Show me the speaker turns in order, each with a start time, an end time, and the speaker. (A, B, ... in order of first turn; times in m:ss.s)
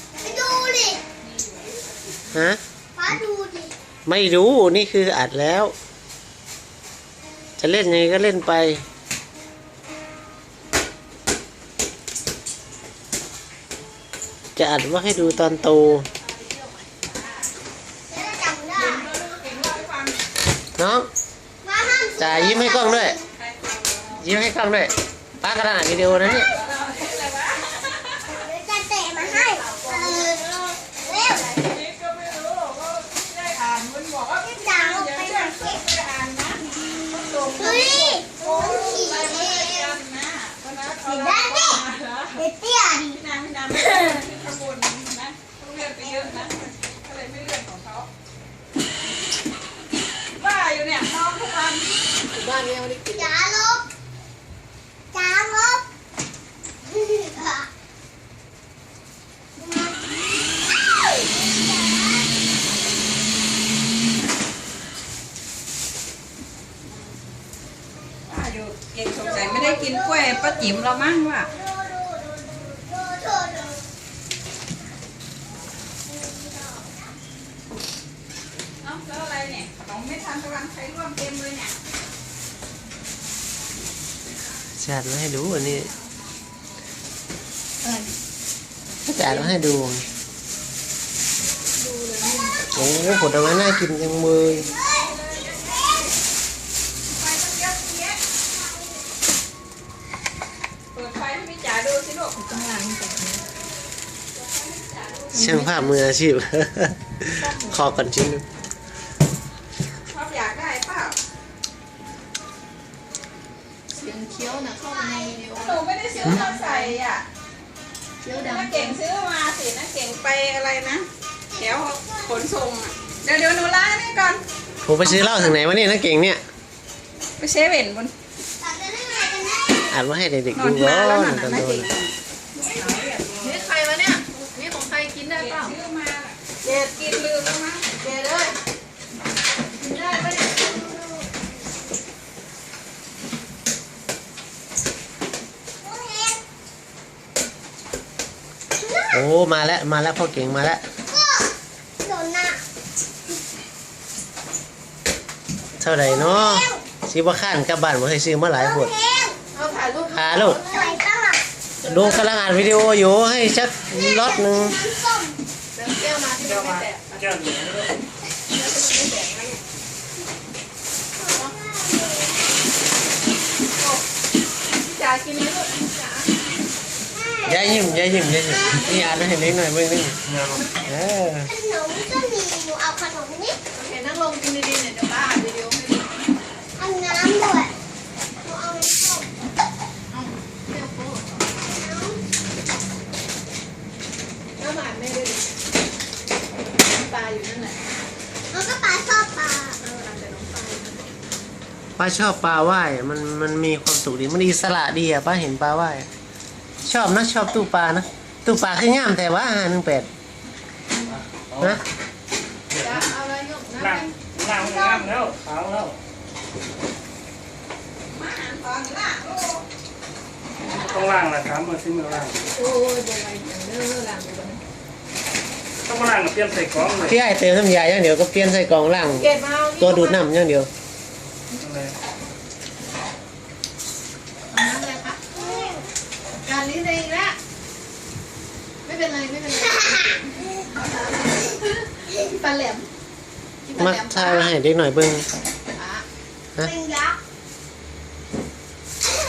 0:00.2-0:01.0 A
0:01.2-0:02.4 B
0:02.3-0:02.6 C
0:03.0-0:03.7 A
0:04.1-0:05.7 C
0:07.6-0:08.8 C
0:14.6-0:16.1 C
0:15.2-0:17.5 D
0:18.1-0:19.1 A
0:18.7-0:20.2 B
0:20.8-0:21.1 C
0:21.6-0:23.3 A
0:22.2-0:23.2 C
0:23.3-0:24.3 B
0:24.2-0:26.5 C
0:26.0-0:28.3 B
0:28.3-0:31.5 A
0:29.2-0:30.3 D
0:31.3-0:36.6 B
0:34.4-0:35.8 A
0:37.1-0:37.8 D
0:37.4-0:42.4 B
0:37.6-0:40.0 A
0:41.0-0:43.2 A
0:43.1-0:48.1 B
0:50.4-0:52.0 B
0:52.3-0:53.3 D
0:53.1-0:53.8 A
0:55.1-0:55.8 A
0:56.8-0:57.7 A
0:59.6-1:00.3 A
1:01.0-1:02.3 A
1:08.3-1:11.5 B
1:09.1-1:10.9 A
1:11.4-1:13.8 A
1:16.1-1:17.1 A
1:18.8-1:21.8 B
1:24.8-1:25.9 C
1:27.8-1:28.1 D
1:29.1-1:30.0 C
1:29.1-1:29.5 D
1:31.8-1:32.6 D
1:32.7-1:34.7 C
1:34.8-1:36.0 B
1:37.1-1:38.2 B
1:40.9-1:42.4 B
1:42.3-1:43.5 D
1:44.4-1:45.4 B
1:45.3-1:46.0 D
1:45.3-1:48.4 C
1:47.4-1:48.0 D
1:50.1-1:51.2 B
1:53.9-1:57.0 D
1:55.5-1:57.2 B
1:58.2-1:59.0 D
1:58.3-2:04.4 B
2:01.5-2:02.5 A
2:04.9-2:06.4 C
2:07.4-2:08.1 B
2:08.6-2:10.0 A
2:09.9-2:11.9 C
2:10.5-2:13.7 B
2:13.4-2:15.8 D
2:15.4-2:17.9 B
2:16.6-2:16.9 D
2:17.9-2:18.6 D
2:19.8-2:21.1 D
2:25.8-2:26.4 A
2:28.8-2:29.2 A
2:29.1-2:30.8 C
2:31.1-2:32.6 A
2:35.8-2:38.9 C
2:36.1-2:36.8 A
2:38.6-2:39.4 A
2:39.5-2:40.9 D
2:40.1-2:40.6 C
2:40.5-2:41.4 A
2:41.8-2:42.2 D
2:41.8-2:44.8 C
2:43.9-2:45.4 A
2:45.8-2:47.3 D
2:46.4-2:48.0 E
2:48.5-2:49.6 D
2:51.2-2:52.5 A
2:53.8-2:54.0 D
2:54.8-2:56.3 D
2:57.1-2:59.0 A
2:57.4-3:00.2 C
3:00.3-3:00.7 E
3:00.9-3:01.5 C
3:01.5-3:03.6 A
3:03.8-3:06.2 D
3:06.8-3:07.7 A
3:08.4-3:09.3 A
3:10.1-3:11.4 D
3:11.6-3:12.2 A
3:14.6-3:15.5 D
3:16.8-3:17.8 D
3:18.5-3:19.8 A
3:19.8-3:21.0 D
3:22.0-3:26.1 C
3:26.8-3:30.1 C
3:31.1-3:31.8 E
3:32.7-3:33.1 E
3:32.8-3:34.1 D
3:33.8-3:36.0 E
3:38.1-3:39.7 B
3:40.7-3:42.4 E
3:42.5-3:44.6 D
3:45.8-3:47.2 E
3:47.0-3:50.7 C
3:49.1-3:50.2 D
3:51.5-3:52.0 E
3:54.5-3:55.2 D
3:55.4-3:55.8 A
3:56.4-3:57.4 D
3:58.8-4:00.2 D
4:02.1-4:02.9 D
4:03.7-4:04.5 D
4:03.8-4:05.2 C
4:05.8-4:06.0 D
4:06.6-4:07.2 A